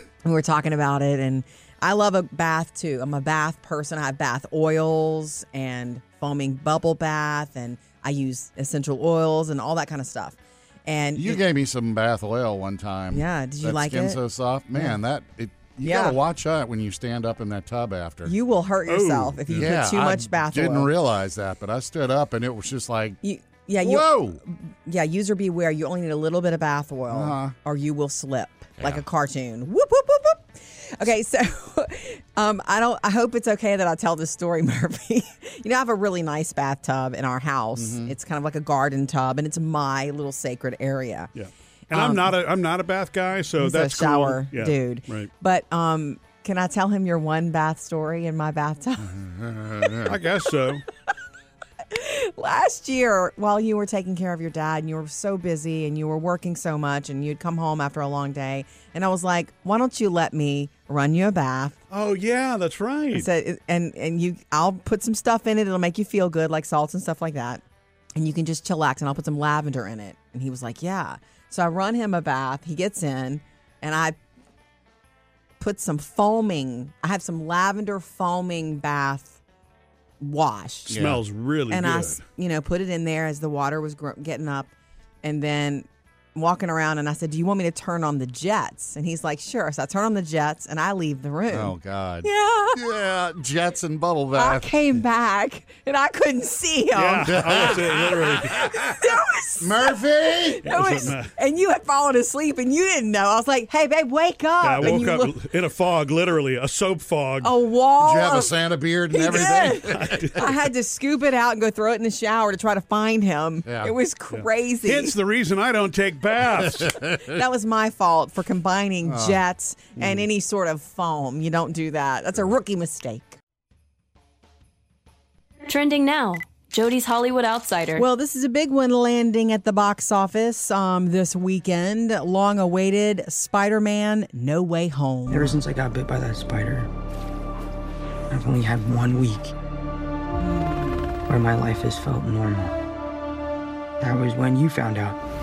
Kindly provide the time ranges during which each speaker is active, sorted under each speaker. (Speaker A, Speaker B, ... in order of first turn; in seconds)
Speaker A: 0.2-11.4, 13.1-14.2, 15.8-16.2, 18.2-20.9, 23.2-41.3, 41.9-42.3, 43.6-49.2, 51.9-61.8, 63.1-67.6, 68.2-74.2, 75.6-79.3, 80.2-81.0, 81.7-84.7, 85.2-92.8, 94.3-97.8, 98.5-105.4, 107.4-108.5, 109.1-115.2, 117.3-123.4, 128.0-135.6, 140.4-141.1
Speaker B: 11.2-18.3, 19.5-23.2, 23.8-24.4, 27.1-27.5, 37.8-38.1, 49.0-50.2, 80.9-81.2, 91.5-94.7, 97.2-100.7, 108.0-110.6, 113.7-113.9, 116.6-117.4, 119.0-119.4, 120.0-120.2
Speaker C: 18.9-19.7, 41.4-45.3, 50.1-50.8, 61.9-63.3, 80.9-82.2, 96.9-98.7, 100.7-101.3, 104.6-107.5, 109.9-110.4, 114.3-117.0
Speaker D: 125.7-128.1
Speaker E: 135.3-136.9, 138.3-139.5, 141.3-142.8, 144.0-145.2